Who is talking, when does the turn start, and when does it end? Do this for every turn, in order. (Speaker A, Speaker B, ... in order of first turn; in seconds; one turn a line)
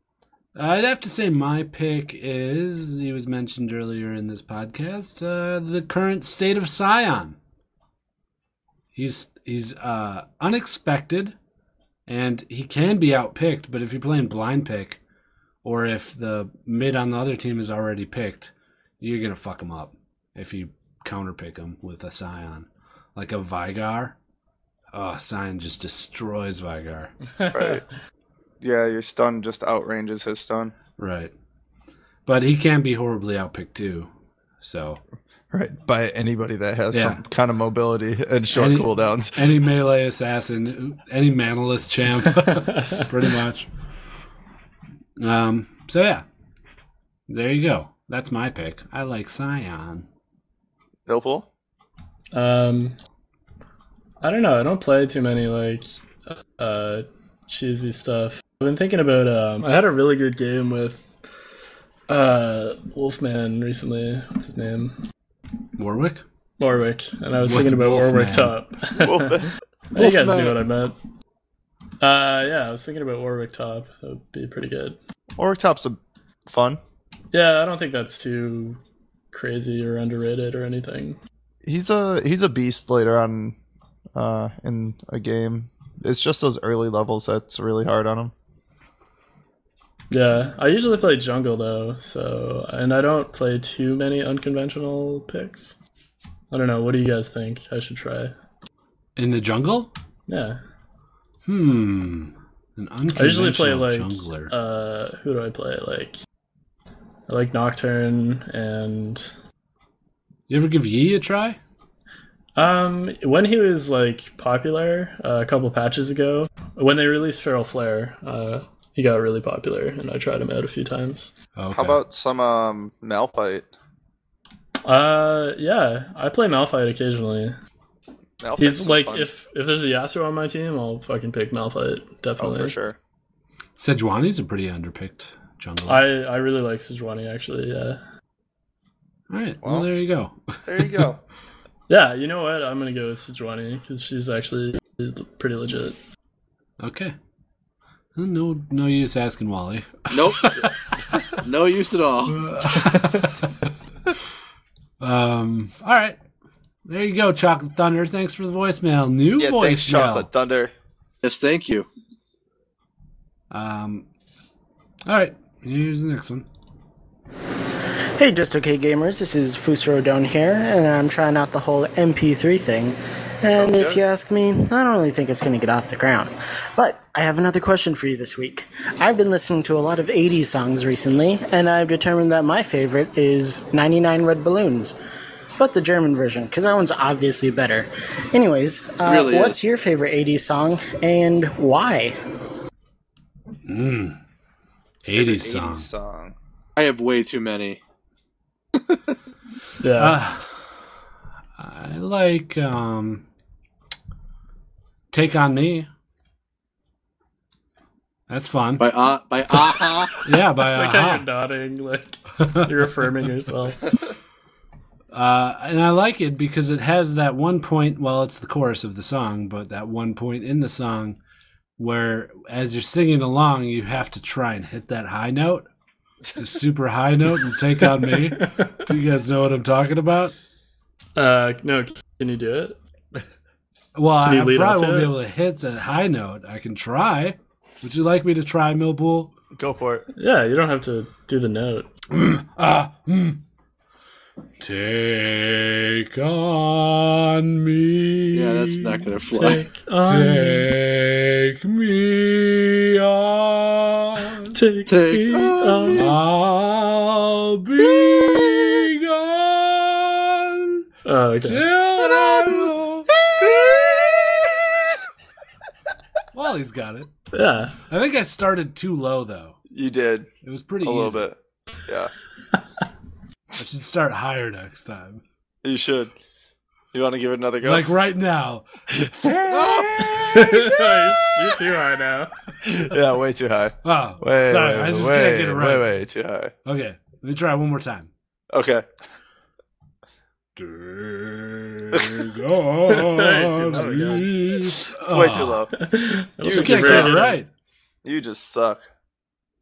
Speaker A: 0.6-7.4
Speaker A: 8.9-11.3
Speaker A: 12.1-15.0
Speaker A: 15.6-24.1
Speaker A: 24.9-27.1
Speaker B: 27.4-27.8
Speaker C: 27.5-27.8
Speaker C: 28.6-30.7
Speaker A: 31.0-31.3
Speaker A: 32.3-34.1
Speaker A: 34.6-35.0
Speaker C: 35.5-39.5
Speaker A: 36.9-37.2
Speaker A: 38.5-43.7
Speaker B: 42.7-43.0
Speaker A: 45.2-46.2
Speaker A: 47.3-50.0
Speaker C: 51.1-51.5
Speaker B: 52.3-53.0
Speaker B: 54.2-61.1
Speaker B: 62.1-65.0
Speaker A: 65.8-66.2
Speaker B: 66.6-71.0
Speaker A: 67.4-68.5
Speaker C: 69.0-69.5
Speaker D: 70.0-70.6
Speaker B: 72.0-75.0
Speaker C: 75.4-76.8
Speaker B: 77.3-78.8
Speaker B: 79.3-81.2
Speaker C: 81.6-83.5
Speaker C: 84.2-88.3
Speaker B: 90.1-95.7
Speaker B: 96.5-98.3
Speaker A: 99.2-99.9
Speaker B: 100.3-100.6
Speaker A: 101.5-104.5
Speaker B: 103.2-106.2
Speaker B: 107.3-109.3
Speaker A: 110.5-111.6
Speaker B: 112.5-121.3
Speaker A: 121.5-122.0
Speaker C: 121.7-123.7
Speaker B: 124.8-127.5
Speaker C: 128.4-129.3
Speaker B: 128.6-132.7
Speaker C: 132.4-132.9
Speaker A: 133.8-136.0
Speaker B: 135.9-138.0
Speaker A: 139.3-141.1
Speaker C: 139.6-139.9
Speaker C: 140.6-141.2
Speaker B: 141.9-146.0
Speaker A: 146.8-147.1
Speaker A: 148.1-150.1
Speaker D: 150.1-150.6
Speaker D: 151.4-152.6
Speaker A: 152.3-153.5
Speaker A: 155.0-156.2
Speaker A: 156.9-160.3
Speaker C: 159.4-160.7
Speaker D: 161.2-161.9
Speaker A: 163.5-164.1
Speaker A: 165.1-166.4
Speaker E: 167.8-192.2
Speaker C: 173.6-174.0
Speaker D: 189.1-189.6
Speaker A: 193.7-194.2
Speaker A: 195.1-195.9
Speaker C: 195.1-196.3
Speaker D: 196.8-197.8
Speaker D: 198.8-199.1
Speaker B: 199.8-200.2
Speaker A: 200.0-200.8
Speaker A: 201.6-203.2
Speaker A: 205.1-205.9
Speaker A: 208.3-208.9
Speaker D: 208.8-210.2
Speaker A: 210.2-211.3
Speaker B: 210.6-213.9
Speaker A: 212.4-212.7
Speaker A: 215.1-221.2
Speaker A: 221.8-225.7
Speaker A: 226.4-230.3
Speaker B: 228.4-228.7
Speaker B: 231.2-232.8
Speaker A: 233.9-239.3
Speaker B: 234.2-235.1
Speaker C: 239.6-240.1
Speaker B: 240.2-241.9
Speaker A: 242.1-243.4
Speaker A: 244.6-249.1
Speaker D: 248.3-249.6
Speaker B: 249.3-250.7
Speaker A: 250.0-254.6
Speaker B: 254.5-256.1
Speaker D: 254.9-256.1
Speaker A: 255.9-260.8
Speaker B: 261.1-261.6
Speaker A: 261.4-263.1
Speaker D: 262.0-262.6
Speaker A: 266.3-267.1
Speaker B: 267.3-267.8
Speaker A: 267.9-269.6
Speaker C: 269.7-270.3
Speaker A: 270.4-271.2
Speaker C: 270.8-272.1
Speaker A: 273.6-275.2
Speaker C: 275.6-276.1
Speaker C: 276.9-277.9
Speaker A: 277.6-280.4
Speaker D: 279.5-280.4
Speaker B: 280.3-282.3
Speaker C: 282.6-286.5
Speaker A: 283.8-285.9
Speaker A: 286.6-288.1
Speaker C: 288.5-288.8
Speaker A: 290.6-295.6
Speaker B: 292.9-294.4
Speaker C: 295.1-295.8
Speaker B: 295.8-297.4
Speaker C: 296.4-297.3
Speaker A: 296.5-297.5
Speaker C: 298.0-298.8